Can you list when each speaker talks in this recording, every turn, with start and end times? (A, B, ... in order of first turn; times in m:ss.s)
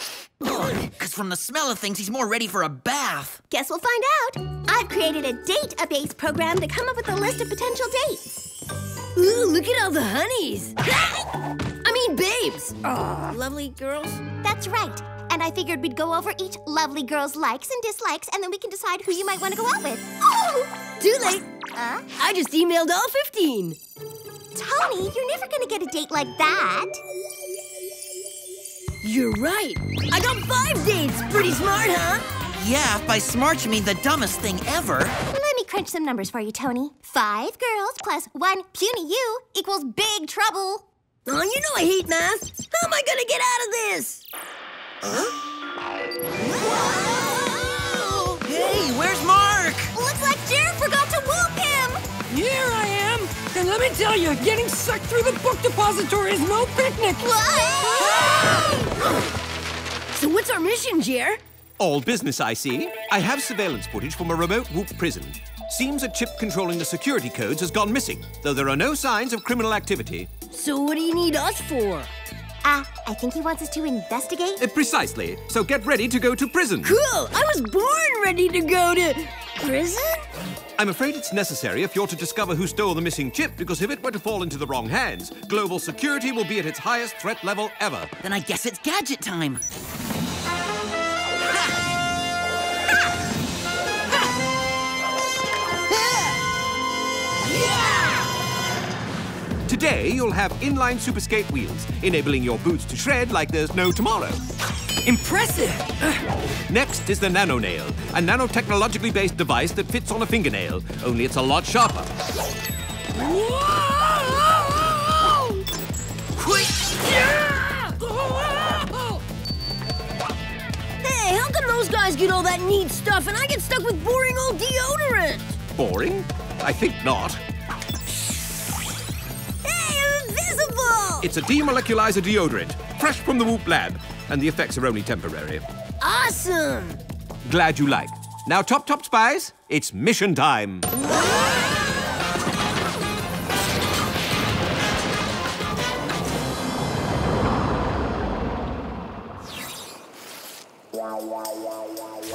0:00.4-0:03.4 A
0:03.5-0:08.5 B
0:09.2-0:10.9 C
0:11.8-0:13.6 C
0:13.1-0:20.7 B
0:21.0-0:21.4 C
0:21.7-0:22.0 B
0:22.2-0:23.8 C
0:24.6-0:27.0 B
0:29.0-0:32.3 C
0:32.6-0:35.2 A
0:35.3-0:40.8 B
0:41.3-0:44.2 C
0:46.8-0:48.4 B
0:48.4-0:49.9 A
0:49.9-0:52.0 B
0:52.3-0:57.3 D
0:57.2-0:58.4 B
0:57.9-0:58.3 D
1:00.1-1:01.4 C
1:01.8-1:10.3 E
1:10.5-1:12.1 C
1:12.6-1:14.6 B
1:14.6-1:17.0 E
1:16.8-1:20.3 C
1:20.8-1:28.1 E
1:28.2-1:29.6 A
1:39.7-1:44.4 E
1:45.0-1:46.2 D
1:46.7-1:52.1 E
1:53.2-1:55.5 D
1:56.4-1:57.6 C
1:57.9-1:59.2 D
2:01.0-2:05.6 C
2:05.8-2:07.4 E
2:09.6-2:11.3 C
2:11.2-2:15.6 E
2:16.0-2:17.0 C
2:17.4-2:20.9 E